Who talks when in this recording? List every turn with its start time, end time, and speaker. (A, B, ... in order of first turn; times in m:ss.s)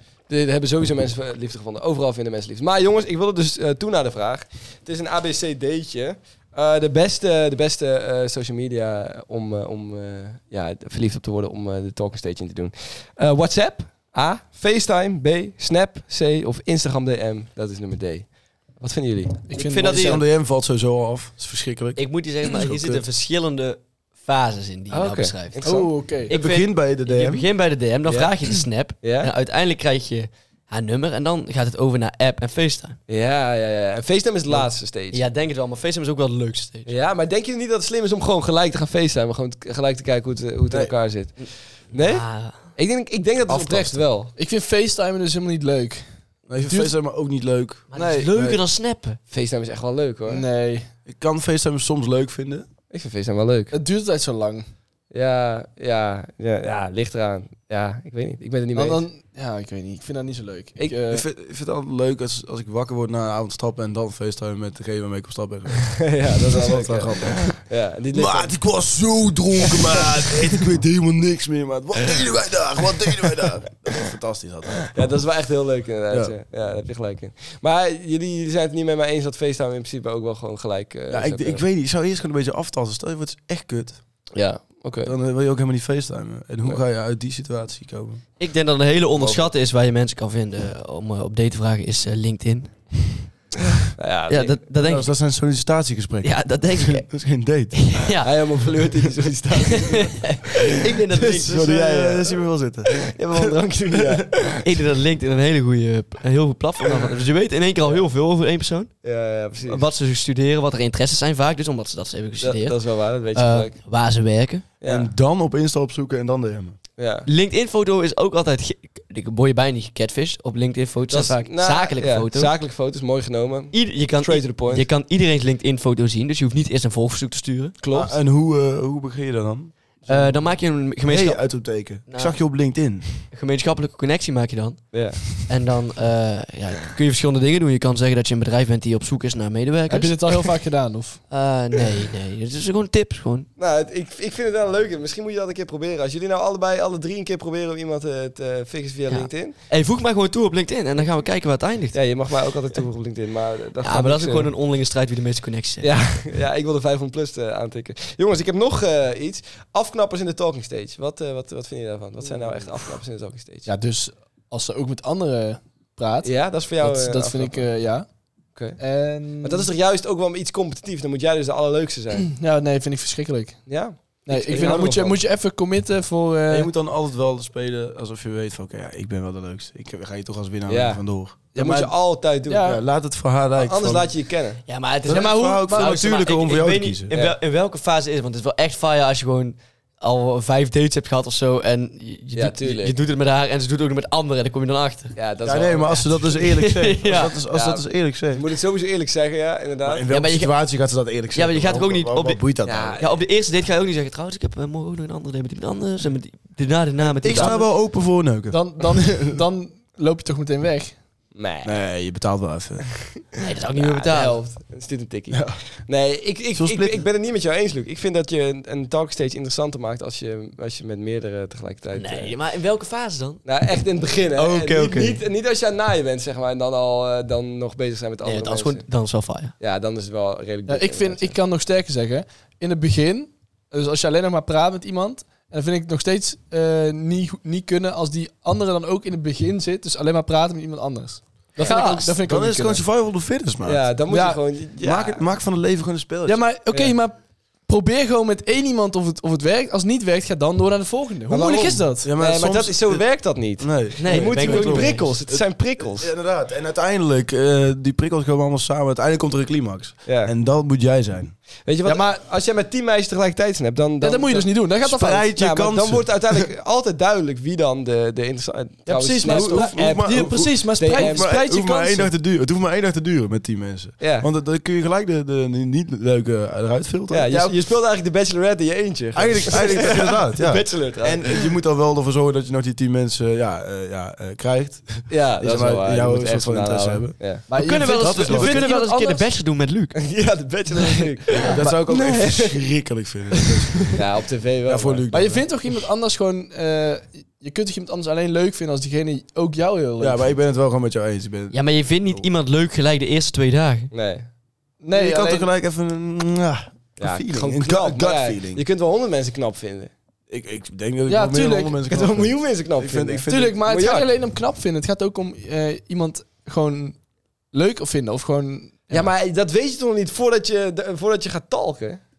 0:00.2-0:19.5 A
0:19.5-0:20.2 B
0:19.6-0:20.2 C
0:19.9-0:23.0 D
0:22.0-0:25.7 C
0:24.9-0:25.9 A
0:25.6-0:26.3 B
0:26.3-0:33.0 C
0:26.3-0:27.5 D
0:28.1-0:28.3 A
0:29.0-0:29.3 A
0:33.1-0:35.2 A
0:34.5-0:36.9 C
0:36.9-0:44.3 A
0:41.4-0:42.7 C
0:43.5-0:44.0 D
0:44.4-0:46.9 B
0:46.5-0:48.6 D
0:47.9-0:49.2 C
0:47.9-0:48.4 B
0:49.3-0:50.4 A
0:50.3-0:50.9 B
0:51.1-0:52.7 D
0:52.9-0:53.7 A
0:53.7-0:54.7 B
0:55.1-0:59.0 A
0:58.7-1:01.2 B
1:01.1-1:07.6 D
1:06.0-1:08.8 A
1:08.1-1:15.0 D
1:14.9-1:21.6 A
1:21.1-1:24.0 D
1:24.3-1:25.1 A
1:25.0-1:28.2 D
1:28.4-1:33.2 C
1:29.2-1:29.4 A
1:34.0-1:34.6 A
1:34.3-1:35.1 C
1:34.8-1:38.0 D
1:36.2-1:38.3 C
1:38.2-1:40.4 A
1:39.7-1:41.9 C
1:41.3-1:44.2 D
1:41.5-1:42.4 A
1:43.0-1:44.6 A
1:44.6-1:49.0 C
1:49.0-1:49.8 A
1:49.6-1:54.7 C
1:52.4-1:53.8 A
1:54.8-1:55.1 A
1:54.8-1:56.8 D
1:57.0-1:57.3 A
1:57.3-2:02.5 C
2:01.1-2:04.9 A
2:03.7-2:07.8 C
2:07.8-2:08.1 A
2:07.9-2:10.5 D
2:10.1-2:12.4 C
2:11.0-2:13.1 D
2:13.3-2:20.6 C
2:14.9-2:15.3 A
2:19.9-2:21.2 B
2:21.3-2:23.5 C
2:23.6-2:29.6 A
2:29.1-2:32.3 C
2:31.9-2:34.5 A
2:33.8-2:35.9 C
2:35.8-2:43.7 A
2:43.7-2:48.1 B
2:46.2-2:47.7 A
2:48.5-2:48.8 A
2:48.8-2:49.7 B
2:49.4-2:52.3 A
2:52.2-2:56.7 B
2:53.7-2:55.2 A
2:56.5-3:01.5 D
3:00.7-3:01.0 A
3:01.5-3:01.9 B
3:01.6-3:02.8 A
3:02.5-3:02.8 B
3:02.6-3:04.1 D
3:03.6-3:04.6 A
3:04.7-3:15.2 C
3:05.0-3:07.1 D
3:05.2-3:05.9 B
3:12.3-3:12.9 A
3:15.2-3:16.3 A
3:15.4-3:18.4 D
3:16.4-3:17.4 C
3:17.5-3:20.0 A
3:19.8-3:23.0 D
3:20.1-3:20.8 C
3:21.3-3:27.7 C
3:22.6-3:23.1 A
3:27.1-3:27.7 A
3:27.2-3:29.3 D
3:28.5-3:31.1 B
3:31.3-3:31.8 A
3:31.6-3:33.2 D
3:33.4-3:34.5 C
3:33.8-3:42.3 A
3:35.3-3:35.6 D
3:36.5-3:37.1 D
3:41.9-3:43.6 C
3:43.4-3:48.8 A
3:44.4-3:45.2 C
3:48.2-3:49.6 C
3:49.6-3:51.4 A
3:50.7-4:02.8 B
4:01.6-4:02.1 C
4:01.6-4:01.9 A
4:02.2-4:04.0 D
4:03.6-4:05.2 A
4:04.1-4:04.5 B
4:04.8-4:06.4 D
4:06.2-4:12.2 B
4:06.7-4:07.0 A
4:11.3-4:16.1 A
4:11.9-4:21.4 D
4:14.0-4:15.2 C
4:20.0-4:20.3 A
4:21.6-4:24.7 A
4:21.8-4:22.2 B
4:24.0-4:25.3 B
4:24.8-4:26.3 D
4:25.3-4:31.3 A
4:28.9-4:32.1 B
4:29.2-4:37.5 D
4:34.0-4:34.3 A
4:37.1-4:41.4 A
4:37.3-4:37.6 B
4:39.1-4:48.7 D
4:45.1-4:47.5 A
4:47.5-4:49.3 B
4:47.5-4:50.2 C
4:50.0-4:52.6 A
4:51.0-4:51.5 C
4:51.4-4:53.9 D
4:51.4-4:51.8 B
4:53.9-4:55.0 A
4:54.7-4:55.5 D
4:55.1-5:00.4 B
5:00.0-5:02.3 D
5:01.5-5:03.9 C
5:03.9-5:04.3 A
5:04.8-5:05.5 B
5:04.9-5:08.6 D
5:07.0-5:09.9 A
5:10.3-5:13.6 D
5:11.1-5:11.8 B
5:11.9-5:14.1 A
5:13.3-5:17.0 B
5:17.5-5:19.1 B
5:18.9-5:22.0 A